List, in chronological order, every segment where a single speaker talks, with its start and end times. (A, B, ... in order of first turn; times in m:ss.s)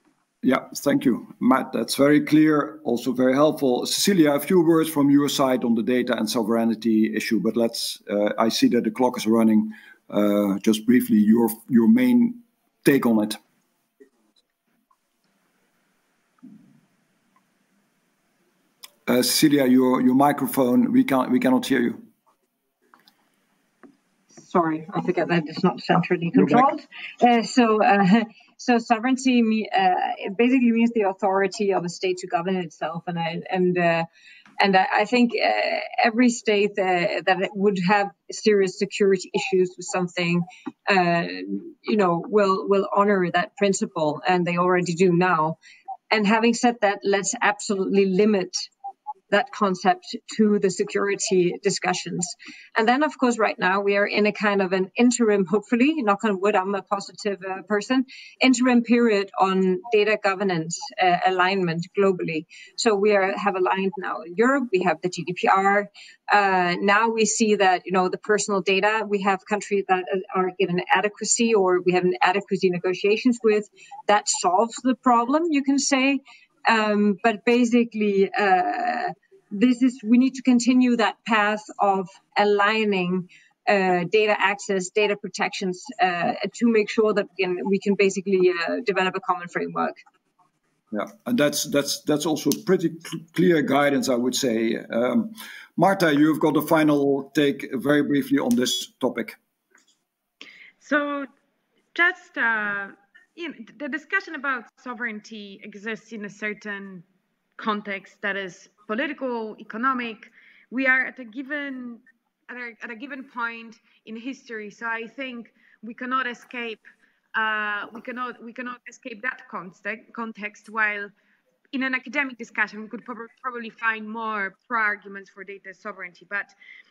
0:00.4-0:13.4 A
0:19.1-0:22.1 A
0:24.4-0:34.1 B
0:26.3-0:26.7 A
0:34.6-0:45.6 B
0:46.1-0:48.7 B
0:49.3-1:30.0 B
1:30.9-1:39.4 A
1:40.8-1:41.3 C
1:41.9-1:47.0 C
1:47.6-1:56.8 C
1:57.4-2:01.1 C
2:01.7-2:06.6 C